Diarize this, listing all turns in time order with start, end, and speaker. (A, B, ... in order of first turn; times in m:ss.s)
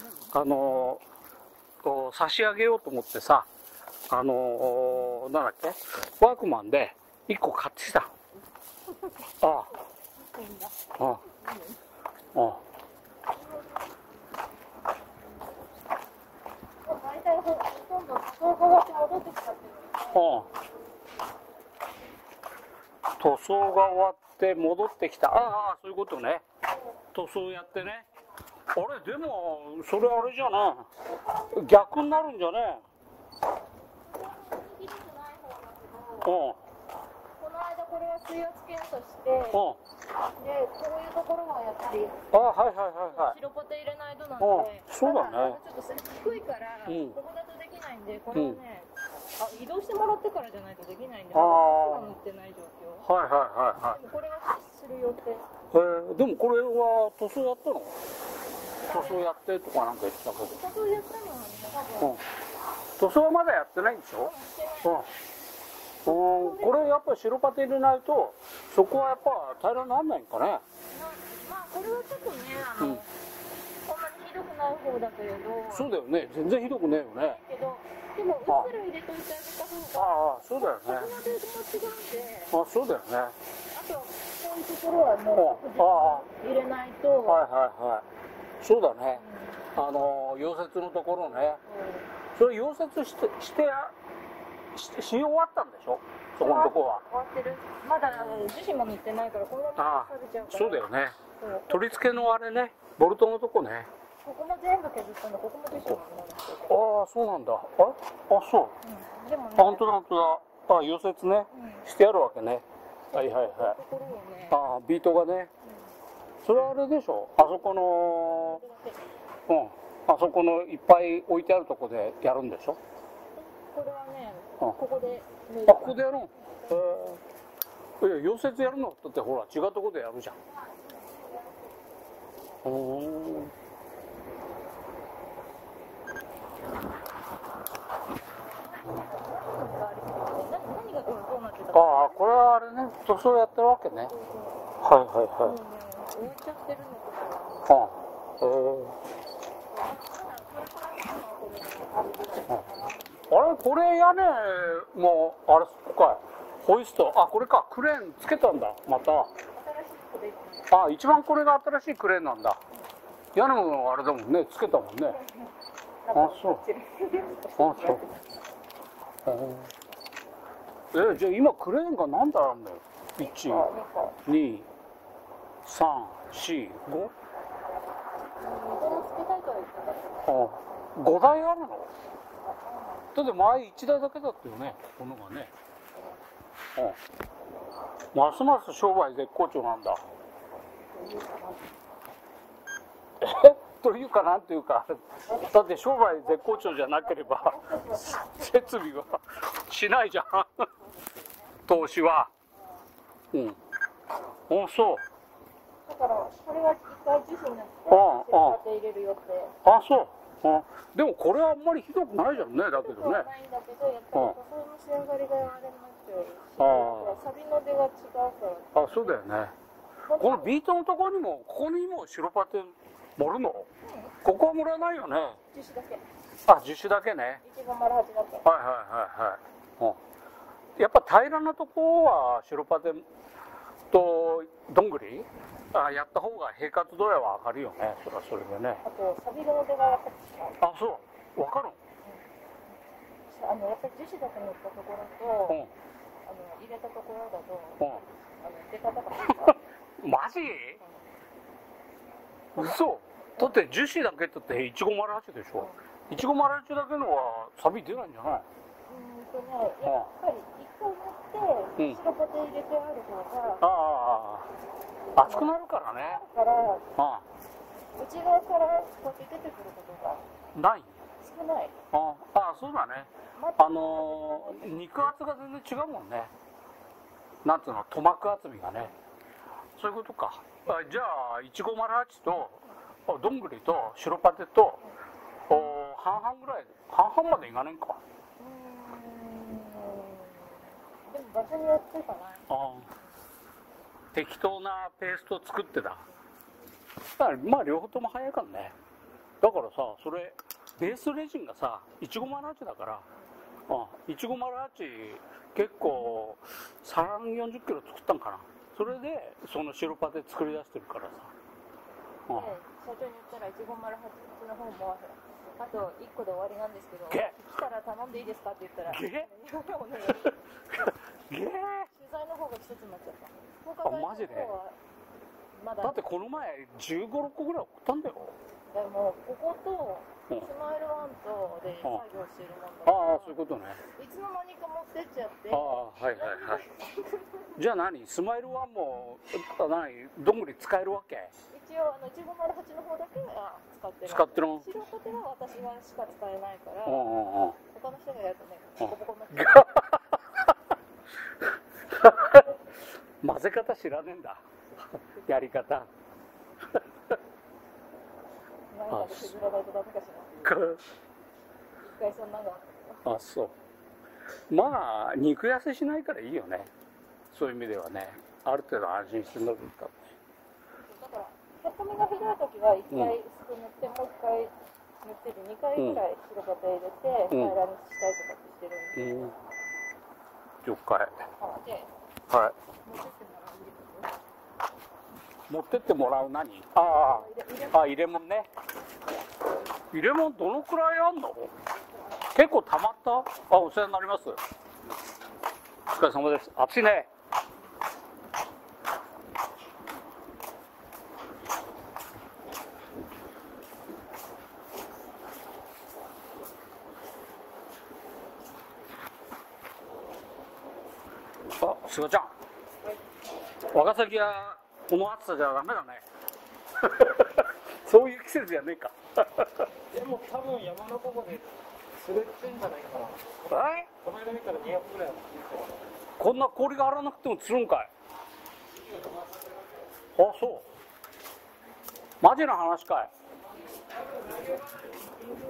0:00.3-0:01.0 A
0:01.8-0:03.5 A
0:04.1-0:08.1 A
0:08.9-0:11.8 B
0:09.4-0:09.7 A
0:11.0-0:11.2 A
0:12.4-0:12.6 A
0:16.8-0:20.2 B
0:20.1-0:20.5 A
0:23.2-0:26.4 A
0:27.1-0:28.0 A
0:28.7-0:30.9 A
0:31.5-0:32.8 A
0:34.0-0:36.4 B
0:36.2-0:36.6 A
0:37.4-0:39.6 B
0:39.5-0:39.8 A
0:40.4-0:42.3 B
0:42.3-0:43.4 A
0:43.1-0:53.1 B
0:44.4-0:45.6 A
0:46.9-0:47.2 A
0:48.3-0:48.6 A
0:51.3-0:52.1 A
0:53.0-0:54.0 A
0:53.9-0:55.5 B
0:55.7-0:58.0 A
0:58.8-0:59.3 B
0:58.9-1:00.6 A
1:00.4-1:02.2 B
1:03.0-1:04.3 A
1:04.2-1:05.0 B
1:04.8-1:05.1 A
1:06.0-1:10.6 A
1:06.1-1:06.8 B
1:10.9-1:13.1 B
1:13.8-1:15.9 B
1:15.7-1:17.4 A
1:17.2-1:22.5 B
1:20.0-1:21.1 A
1:22.5-1:23.4 A
1:23.7-1:27.4 B
1:25.4-1:26.3 A
1:27.3-1:28.0 A
1:28.6-1:29.2 A
1:29.2-1:29.7 B
1:29.7-1:31.6 A
1:31.3-1:32.1 B
1:32.3-1:33.9 A
1:34.7-1:37.0 A
1:36.4-1:40.9 B
1:38.1-1:38.4 A
1:39.8-1:41.2 A
1:41.4-1:42.2 B
1:41.7-1:43.9 A
1:44.2-1:46.8 B
1:46.7-1:48.8 A
1:48.8-1:49.9 B
1:49.6-1:53.8 A
1:51.5-1:51.8 B
1:53.1-1:54.6 B
1:54.5-1:55.5 A
1:56.4-1:58.6 A
1:58.3-1:59.0 B
1:59.5-2:02.8 A
2:03.4-2:07.0 B
2:05.7-2:07.2 A
2:08.0-2:10.4 A
2:10.5-2:11.7 B
2:12.6-2:13.5 A
2:18.8-2:22.5 B
2:21.7-2:24.1 A
2:23.9-2:24.7 B
2:24.8-2:25.6 A
2:25.4-2:27.7 B
2:27.7-2:29.0 A
2:29.7-2:33.0 B
2:33.3-2:39.3 A
2:39.5-2:40.8 B
2:40.7-2:42.6 A
2:43.3-2:45.2 A
2:45.1-2:45.5 B
2:46.0-2:48.2 B
2:46.1-2:46.6 A
2:47.6-2:48.0 A
2:49.3-2:49.7 A
2:50.9-2:53.7 A
2:53.2-2:54.2 B
2:54.2-2:54.7 A
2:55.6-2:57.1 A
2:58.4-3:00.2 B
3:00.3-3:01.9 A
3:02.4-3:03.1 B
3:03.1-3:05.5 A
3:08.1-3:10.0 A
3:10.9-3:11.7 B
3:13.2-3:20.7 A
3:15.3-3:18.9 B
3:20.8-3:21.6 B
3:21.7-3:22.3 A
3:23.3-3:23.6 A
3:24.5-3:25.0 A
3:25.8-3:29.5 B
3:27.9-3:28.6 A
3:29.6-3:33.3 A
3:32.3-3:39.2 B
3:36.6-3:37.2 A
3:38.8-3:39.5 A
3:40.1-3:40.5 B
3:40.2-3:43.7 A
3:43.8-3:44.2 B
3:44.2-3:45.4 A
3:45.5-3:46.0 B
3:46.5-3:47.4 A
3:47.4-3:48.4 B
3:48.4-3:50.0 A
3:50.8-3:53.1 A
3:53.9-3:58.8 A
3:58.8-4:00.6 B
4:00.6-4:01.8 A
4:03.3-4:05.6 B
4:06.2-4:09.6 B
4:10.0-4:10.8 A
4:10.8-4:11.1 B
4:12.6-4:18.5 A
4:18.9-4:23.6 B
4:19.8-4:20.1 A
4:23.6-4:24.5 A
4:25.2-4:26.2 A
4:25.2-4:26.9 B
4:27.0-4:27.2 A
4:28.0-4:30.3 B
4:30.5-4:31.0 A
4:31.2-4:31.8 B
4:31.9-4:36.3 A
4:33.4-4:34.8 B
4:37.4-4:38.9 A
4:39.8-4:44.8 A
4:45.5-4:48.0 A
4:48.4-4:52.5 B
4:52.5-4:52.9 A
4:54.1-4:56.0 A
4:57.2-4:58.8 A
4:59.4-5:03.1 A
5:03.7-5:11.3 A
5:12.3-5:20.4 B
5:17.1-5:17.4 A
5:18.9-5:19.3 A
5:20.3-5:21.9 A
5:21.9-5:24.8 B
5:23.8-5:24.6 A
5:25.5-5:26.0 B
5:25.8-5:28.4 A
5:28.7-5:33.4 B
5:32.8-5:33.8 A
5:34.0-5:37.6 B
5:35.5-5:36.6 A
5:37.6-5:41.3 A
5:41.5-5:47.1 B
5:44.1-5:44.6 A
5:46.9-5:47.6 A
5:47.7-5:49.7 B
5:48.8-5:50.5 A
5:51.9-5:52.5 A
5:53.2-5:54.4 A
5:55.0-5:55.9 A
5:58.7-6:00.5 B
5:58.9-5:59.4 A
6:00.4-6:00.8 A
6:01.8-6:03.0 B
6:03.0-6:03.5 A
6:04.5-6:06.7 A
6:07.3-6:10.1 A
6:10.9-6:19.1 B
6:15.8-6:16.0 A
6:17.3-6:17.6 A
6:19.0-6:19.3 A
6:20.6-6:21.2 A
6:21.4-6:21.9 B
6:22.3-6:22.5 A
6:22.8-6:24.2 B
6:25.5-6:28.5 A
6:26.8-6:27.9 B
6:29.9-6:31.5 A
6:32.3-6:34.4 A
6:35.9-6:37.1 A
6:51.6-6:52.3 A
6:53.7-6:56.0 A
6:56.8-6:59.7 A
6:59.9-7:03.4 C
7:03.5-7:03.9 A
7:04.0-7:05.8 C
7:06.2-7:07.9 A
7:10.2-7:10.7 A
7:12.2-7:13.1 A
7:14.1-7:14.6 C